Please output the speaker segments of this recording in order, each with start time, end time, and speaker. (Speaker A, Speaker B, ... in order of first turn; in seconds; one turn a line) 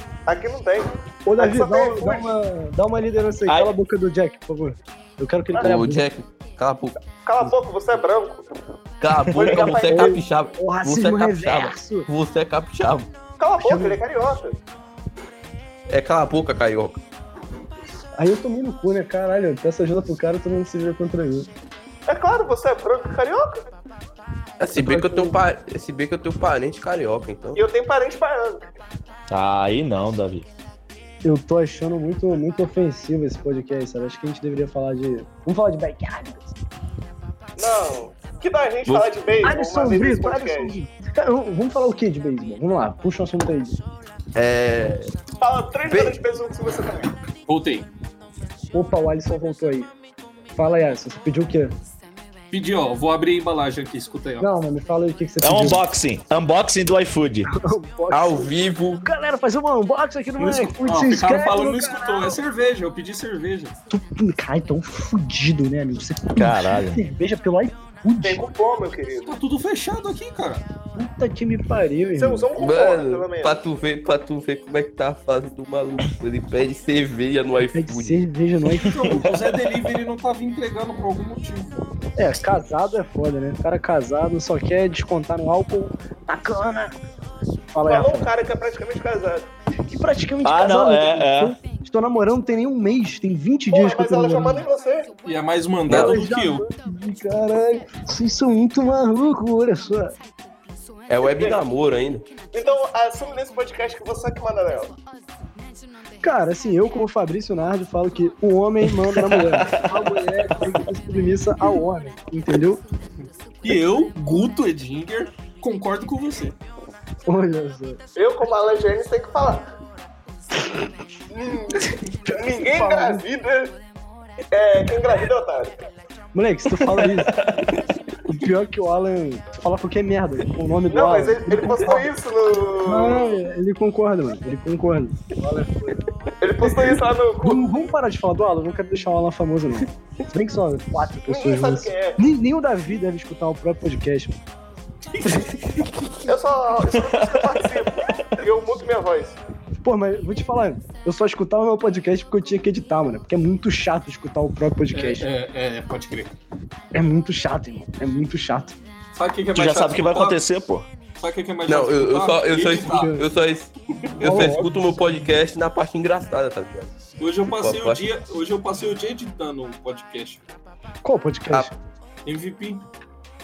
Speaker A: 0.3-2.3
Speaker B: 1.3-6.1
Speaker C: 3.5-3.7
Speaker D: 5.6-7.0
Speaker A: 7.2-8.5
Speaker D: 9.0-13.1
Speaker C: 9.3-9.7
Speaker A: 9.3-10.2
Speaker B: 9.8-12.1
Speaker A: 13.4-14.6
Speaker B: 13.6-14.0
Speaker D: 15.9-17.0
Speaker B: 18.2-21.5
Speaker A: 22.1-23.7
Speaker D: 24.6-27.6
Speaker B: 24.7-25.4
Speaker A: 27.6-28.7
Speaker C: 29.3-30.5
Speaker B: 31.2-36.5
Speaker A: 37.6-40.8
Speaker B: 39.4-43.8
Speaker D: 44.4-45.1
Speaker A: 45.4-47.1
Speaker D: 45.9-46.2
Speaker E: 47.5-47.9
Speaker B: 48.7-49.9
Speaker B: 50.5-51.8
Speaker E: 52.5-54.5
Speaker B: 54.4-55.8
Speaker C: 55.4-57.5
Speaker B: 57.5-62.4
Speaker D: 58.1-59.0
Speaker E: 60.4-63.8
Speaker B: 63.9-68.5
Speaker C: 66.4-67.0
Speaker A: 68.2-69.3
Speaker E: 69.3-70.7
Speaker B: 71.0-72.5
Speaker A: 72.2-73.6
Speaker D: 72.6-78.2
Speaker B: 77.7-79.2
Speaker E: 78.9-81.9
Speaker C: 79.0-79.3
Speaker B: 82.2-87.0
Speaker B: 87.7-88.3
Speaker A: 87.9-89.5
Speaker B: 89.9-94.7
Speaker C: 90.4-91.6
Speaker A: 93.7-95.1
Speaker E: 95.2-96.6
Speaker B: 95.9-100.2
Speaker D: 101.1-102.3
Speaker A: 101.2-101.6
Speaker A: 102.5-104.9
Speaker B: 106.2-112.8
Speaker C: 108.9-110.1
Speaker E: 113.6-116.6
Speaker B: 117.3-118.0
Speaker A: 118.2-119.7
Speaker A: 121.3-123.8
Speaker B: 122.3-123.2
Speaker A: 124.5-125.8
Speaker B: 126.3-127.4
Speaker C: 126.8-127.7
Speaker B: 128.2-132.1
Speaker A: 130.9-133.4
Speaker B: 132.8-136.0
Speaker A: 136.4-137.7
Speaker B: 136.6-144.4
Speaker A: 141.3-142.2
Speaker E: 145.1-145.9
Speaker A: 146.2-149.4
Speaker C: 146.9-148.2
Speaker B: 149.8-155.3
Speaker E: 154.9-156.3
Speaker B: 156.9-158.8
Speaker E: 159.2-160.4
Speaker C: 159.5-160.9
Speaker E: 161.2-163.1
Speaker D: 161.7-166.9
Speaker B: 162.8-163.3
Speaker B: 164.2-164.8
Speaker E: 167.2-170.4
Speaker D: 167.5-168.1
Speaker B: 171.0-171.8
Speaker E: 172.2-172.8